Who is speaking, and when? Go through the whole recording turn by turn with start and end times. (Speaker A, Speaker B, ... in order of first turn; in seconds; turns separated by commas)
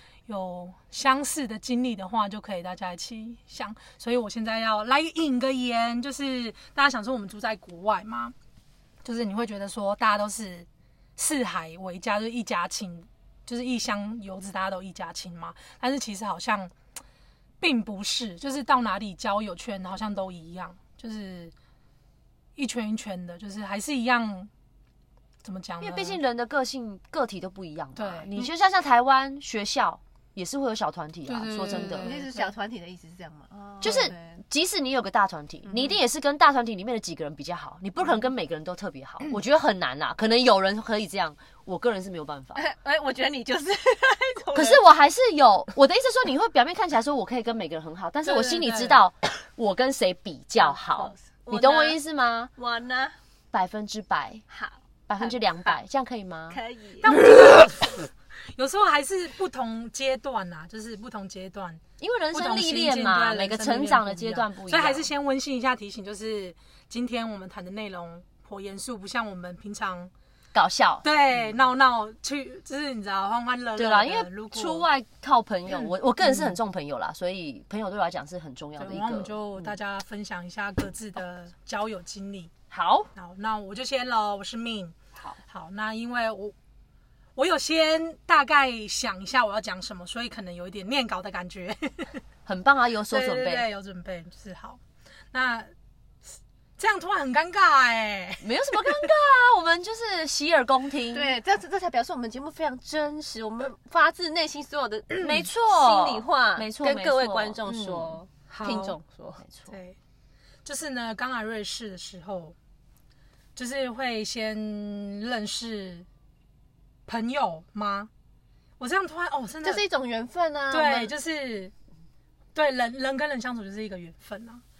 Speaker A: 0.3-8.3, Speaker A: 9.0-16.7, Speaker A: 17.6-21.5, Speaker A: 22.6-24.5, Speaker A: 25.4-26.2, Speaker B: 25.8-32.1, Speaker A: 27.9-28.5, Speaker A: 31.3-32.5, Speaker C: 31.9-34.4, Speaker B: 33.8-42.6, Speaker C: 35.7-35.9, Speaker C: 42.5-44.8, Speaker B: 44.5-52.5, Speaker A: 48.2-49.0, Speaker C: 50.6-52.0, Speaker C: 52.5-53.1, Speaker B: 53.5-54.4, Speaker C: 54.5-55.8, Speaker B: 55.1-56.6, Speaker C: 56.5-57.1, Speaker A: 57.0-70.1, Speaker B: 57.1-57.4, Speaker B: 62.0-65.1, Speaker B: 70.5-71.0, Speaker A: 71.0-74.8, Speaker B: 73.8-79.8, Speaker A: 75.7-76.5, Speaker A: 78.8-82.5, Speaker B: 82.7-83.1, Speaker A: 83.1-85.0, Speaker A: 85.5-86.5, Speaker A: 87.3-92.2, Speaker B: 92.5-93.7, Speaker A: 93.1-94.8, Speaker A: 95.3-95.7, Speaker A: 96.8-99.1, Speaker B: 98.4-101.3, Speaker C: 101.1-109.4, Speaker A: 105.1-105.5, Speaker B: 105.2-108.2, Speaker A: 108.5-109.0, Speaker B: 109.4-109.7, Speaker A: 109.7-110.0, Speaker A: 110.6-112.5, Speaker A: 113.5-116.0, Speaker A: 117.1-118.1, Speaker A: 118.8-119.8, Speaker C: 119.6-121.1, Speaker A: 120.7-121.7, Speaker A: 122.5-124.6